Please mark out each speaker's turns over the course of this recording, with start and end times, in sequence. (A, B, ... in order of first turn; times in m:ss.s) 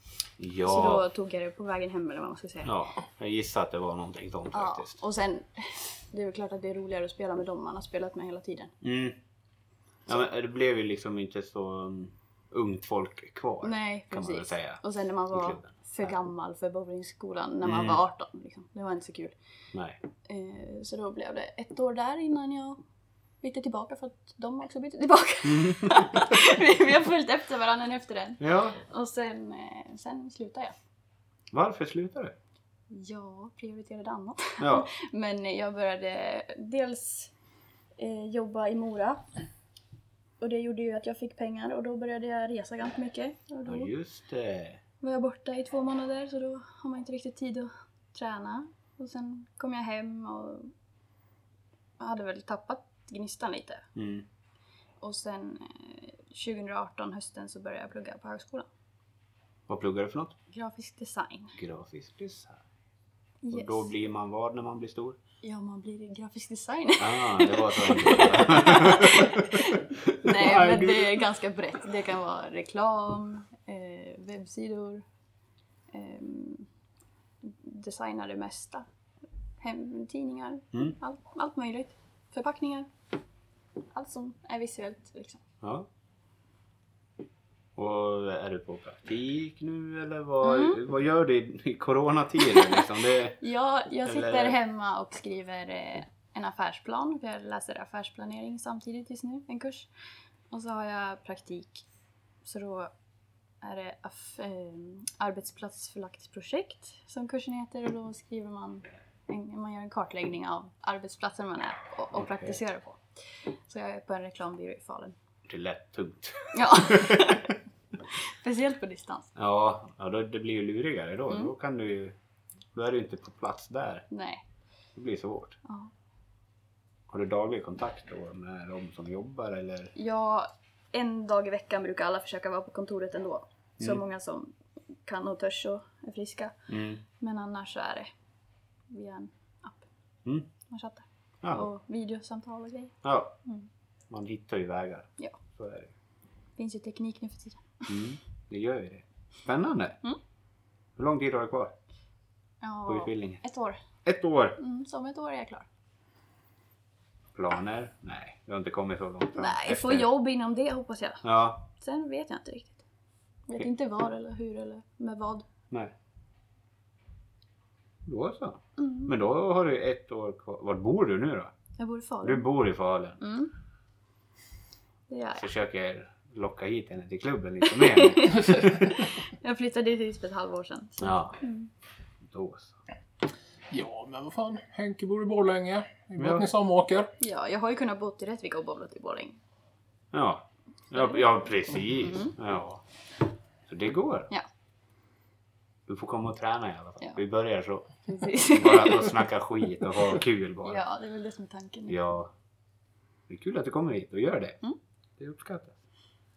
0:00.4-0:01.0 A
0:00.6-0:02.7 B
0:02.6-0:04.9 A
0:04.5-0:08.7 B
0:08.8-0:09.2 A
0:10.0-0:14.8 A
0:13.6-0:19.4 B
0:15.3-0:16.1 A
0:17.6-0:18.0 A
0:19.7-0:20.0 A
0:20.2-0:22.8 B
0:23.4-0:30.7 B
0:25.4-0:26.2 A
0:28.4-0:28.8 A
0:31.5-0:32.3 A
0:32.9-0:37.3 B
0:34.6-0:34.9 A
0:38.0-0:39.2 B
0:40.4-0:43.9 B
0:43.6-0:44.8 A
0:45.0-0:50.7 B
0:52.0-0:53.8 B
0:54.0-0:54.2 A
0:55.0-0:58.7 B
0:59.7-1:00.4 A
1:00.5-1:01.5 B
1:01.6-1:02.6 A
1:03.4-1:03.8 B
1:03.5-1:05.2 A
1:05.4-1:15.0 B
1:07.0-1:10.5 A
1:10.4-1:11.2 C
1:15.9-1:16.7 B
1:17.4-1:18.8 B
1:19.6-1:22.9 B
1:23.9-1:25.4 B
1:25.6-1:25.9 A
1:27.8-1:33.4 A
1:30.4-1:30.8 B
1:33.4-1:39.9 B
1:34.0-1:34.6 A
1:40.5-1:41.8 B
1:42.4-1:42.9 B
1:43.6-1:55.1 B
1:52.1-1:52.5 A
1:55.4-1:57.4 A
1:56.5-1:57.5 B
1:58.2-1:59.3 B
1:59.3-2:02.2 A
2:02.7-2:04.0 A
2:04.1-2:04.4 B
2:04.9-2:05.6 A
2:07.1-2:09.9 A
2:09.9-2:14.5 B
2:15.0-2:16.6 B
2:16.7-2:17.0 A
2:17.2-2:18.1 B
2:18.9-2:19.8 B
2:20.7-2:23.7 B
2:21.4-2:21.7 A
2:23.0-2:23.3 A
2:24.1-2:25.9 A
2:26.6-2:27.8 B
2:27.9-2:30.0 A
2:31.0-2:31.7 A
2:32.6-2:33.8 B
2:32.9-2:33.4 A
2:34.0-2:34.6 A
2:34.6-2:35.6 B
2:37.3-2:40.1 A
2:39.4-2:42.8 B
2:41.2-2:41.6 A
2:43.5-2:45.4 B
2:48.0-2:51.5 A
2:48.8-2:49.1 B
2:51.8-2:52.5 B
2:52.2-2:53.2 A
2:53.2-2:53.5 B
2:55.1-2:55.4 B
2:55.4-2:59.0 A
2:57.7-3:01.7 B
3:01.0-3:01.4 A
3:02.2-3:02.7 A
3:03.7-3:07.1 C
3:06.2-3:06.4 A
3:07.2-3:09.4 B
3:10.1-3:12.8 A
3:12.0-3:12.3 B
3:13.7-3:14.3 A
3:15.9-3:20.8 A
3:18.1-3:19.2 B
3:20.6-3:22.0 B
3:21.9-3:22.3 A
3:23.3-3:24.6 A
3:25.2-3:25.7 A